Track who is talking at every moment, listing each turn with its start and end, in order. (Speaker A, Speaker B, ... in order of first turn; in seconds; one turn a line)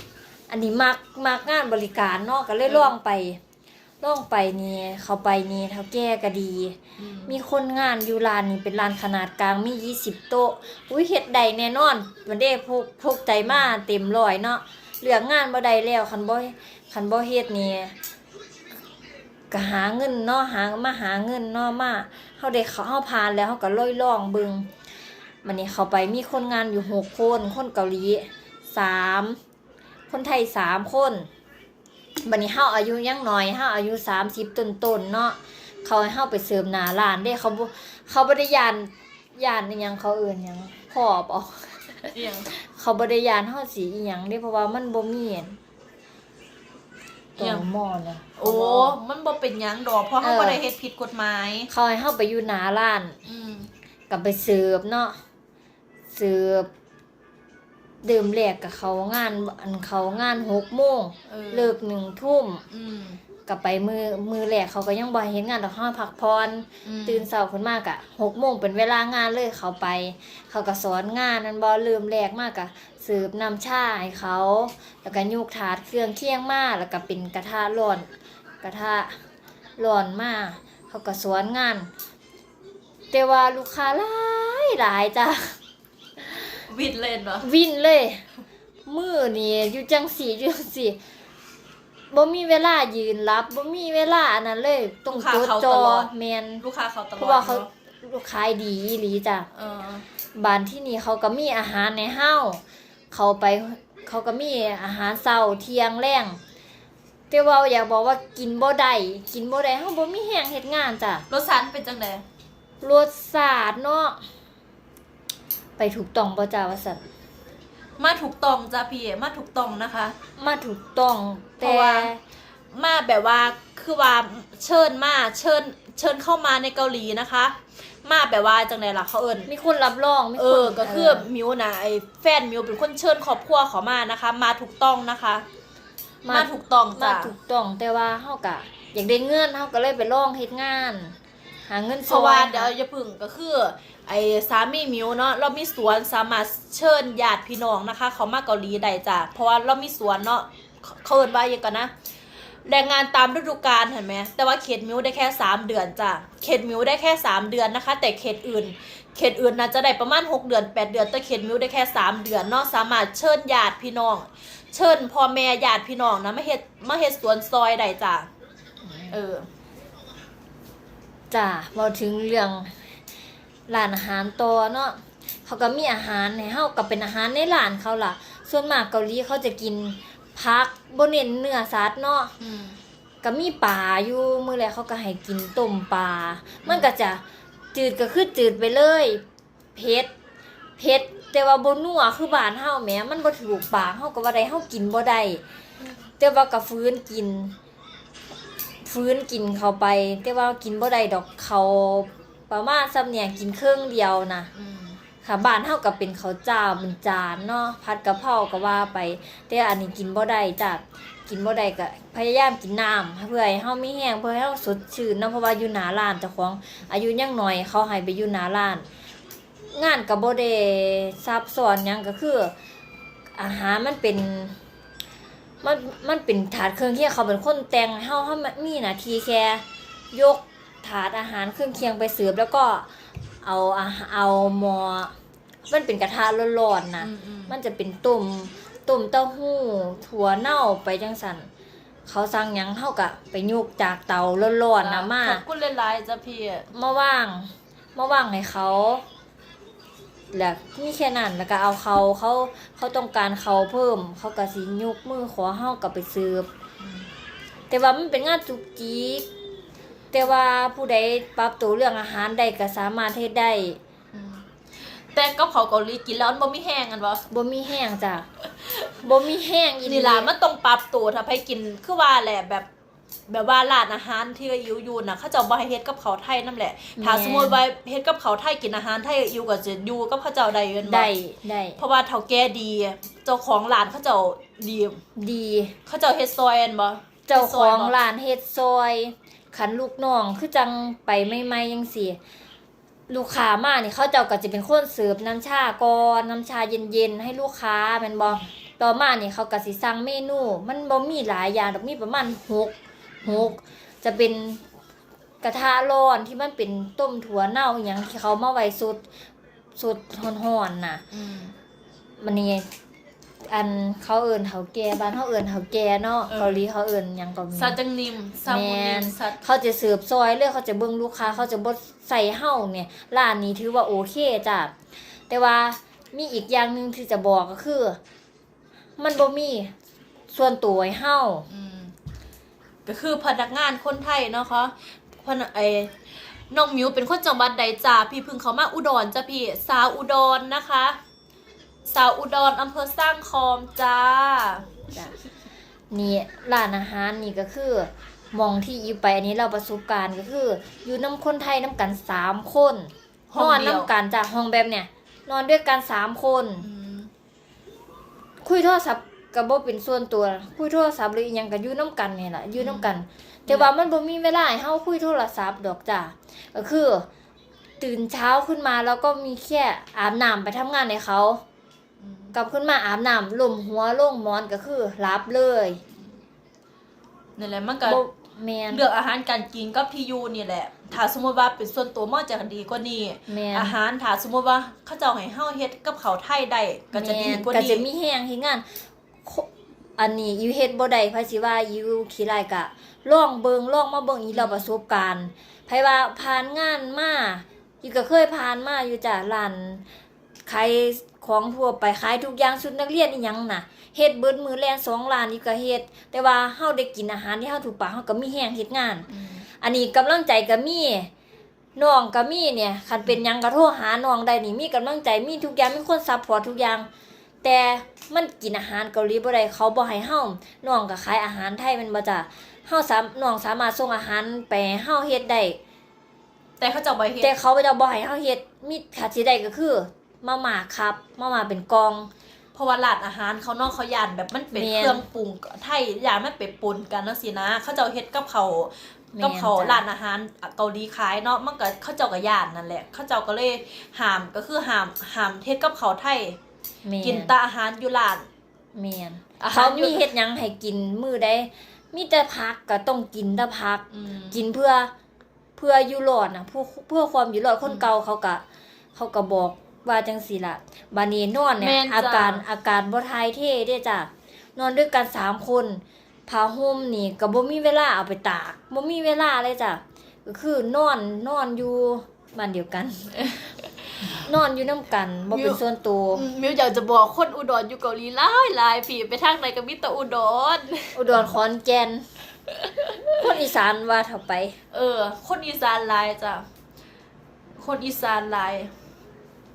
Speaker A: 0.5-3.4
Speaker A: 4.0-17.9
Speaker B: 7.0-7.4
Speaker A: 19.5-24.7
Speaker A: 25.4-29.4
Speaker A: 30.1-31.3
Speaker A: 32.2-45.6
Speaker B: 42.1-42.5
Speaker A: 47.4-49.0
Speaker B: 47.4-47.7
Speaker B: 48.4-51.7
Speaker A: 50.2-50.6
Speaker A: 51.7-53.2
Speaker B: 53.2-53.7
Speaker A: 54.1-55.2
Speaker A: 56.1-56.7
Speaker A: 58.0-62.6
Speaker B: 61.3-61.8
Speaker B: 62.7-63.2
Speaker A: 63.5-78.1
Speaker B: 66.8-67.3
Speaker A: 78.6-79.2
Speaker A: 79.8-81.9
Speaker A: 83.1-85.6
Speaker B: 86.7-87.5
Speaker A: 87.4-88.2
Speaker A: 88.9-91.0
Speaker A: 92.1-96.6
Speaker B: 95.1-96.1
Speaker B: 96.6-97.7
Speaker A: 97.2-99.5
Speaker B: 99.5-100.1
Speaker A: 100.3-106.4
Speaker A: 107.3-111.2
Speaker B: 111.3-112.2
Speaker A: 112.8-114.2
Speaker A: 115.8-117.0
Speaker B: 118.0-120.2
Speaker A: 120.4-122.2
Speaker B: 121.6-122.1
Speaker B: 122.7-129.5
Speaker A: 129.5-131.3
Speaker B: 130.3-135.4
Speaker A: 136.2-141.1
Speaker B: 136.3-137.3
Speaker A: 141.7-142.7
Speaker B: 142.1-151.9
Speaker B: 152.6-168.3
Speaker B: 169.1-169.5
Speaker A: 171.3-172.8
Speaker A: 173.7-182.3
Speaker B: 182.4-182.8
Speaker A: 183.2-187.2
Speaker B: 186.6-186.9
Speaker A: 187.7-189.2
Speaker A: 189.7-190.1
Speaker A: 190.8-195.4
Speaker A: 196.2-197.5
Speaker A: 198.8-204.5
Speaker B: 204.5-205.0
Speaker A: 205.2-218.9
Speaker A: 219.7-222.5
Speaker A: 223.4-224.6
Speaker A: 225.6-232.9
Speaker A: 233.4-235.1
Speaker A: 235.7-241.5
Speaker B: 237.0-237.5
Speaker A: 242.1-245.4
Speaker B: 244.8-246.7
Speaker A: 246.7-249.0
Speaker A: 250.3-256.5
Speaker B: 256.8-257.1
Speaker A: 257.7-259.3
Speaker A: 260.1-263.8
Speaker B: 264.1-267.2
Speaker A: 267.3-268.3
Speaker B: 268.6-268.9
Speaker A: 269.0-270.3
Speaker B: 269.8-272.7
Speaker B: 273.3-281.1
Speaker A: 277.0-277.6
Speaker A: 280.8-281.8
Speaker B: 281.8-285.0
Speaker A: 285.1-285.8
Speaker B: 285.9-287.9
Speaker A: 287.3-292.2
Speaker A: 293.1-304.6
Speaker B: 303.2-303.5
Speaker A: 305.4-309.0
Speaker A: 309.8-311.0
Speaker B: 311.1-311.5
Speaker A: 312.2-312.7
Speaker A: 313.4-317.8
Speaker B: 316.3-316.6
Speaker B: 317.5-319.4
Speaker A: 318.4-324.7
Speaker A: 325.3-328.0
Speaker A: 329.0-329.7
Speaker A: 330.3-331.4
Speaker B: 331.5-331.9
Speaker B: 332.9-341.0
Speaker B: 341.9-344.9
Speaker A: 345.9-356.6
Speaker B: 353.3-353.9
Speaker B: 356.6-357.1
Speaker A: 358.4-367.1
Speaker B: 362.6-362.9
Speaker A: 367.8-371.4
Speaker B: 372.0-372.3
Speaker A: 372.3-375.8
Speaker B: 377.4-378.0
Speaker A: 377.9-378.8
Speaker B: 378.7-387.9
Speaker A: 383.3-383.8
Speaker A: 386.9-388.7
Speaker A: 389.2-399.8
Speaker B: 394.3-394.7
Speaker A: 400.4-409.1
Speaker B: 409.1-409.4
Speaker A: 409.6-411.1
Speaker A: 411.8-416.9
Speaker A: 417.4-425.6
Speaker B: 426.6-427.3
Speaker A: 427.2-432.1
Speaker B: 432.5-446.4
Speaker A: 434.5-435.0
Speaker A: 439.1-439.8
Speaker A: 446.8-447.3
Speaker B: 447.0-448.3
Speaker A: 448.7-454.9
Speaker B: 449.4-450.1
Speaker B: 453.9-454.4
Speaker A: 455.6-458.4
Speaker A: 458.9-473.2
Speaker B: 461.6-462.4
Speaker B: 473.3-474.2
Speaker A: 474.0-476.2
Speaker B: 475.3-475.6
Speaker B: 476.1-481.3
Speaker A: 480.9-482.0
Speaker B: 482.5-483.3
Speaker A: 483.1-484.6
Speaker B: 484.7-486.4
Speaker B: 487.6-488.7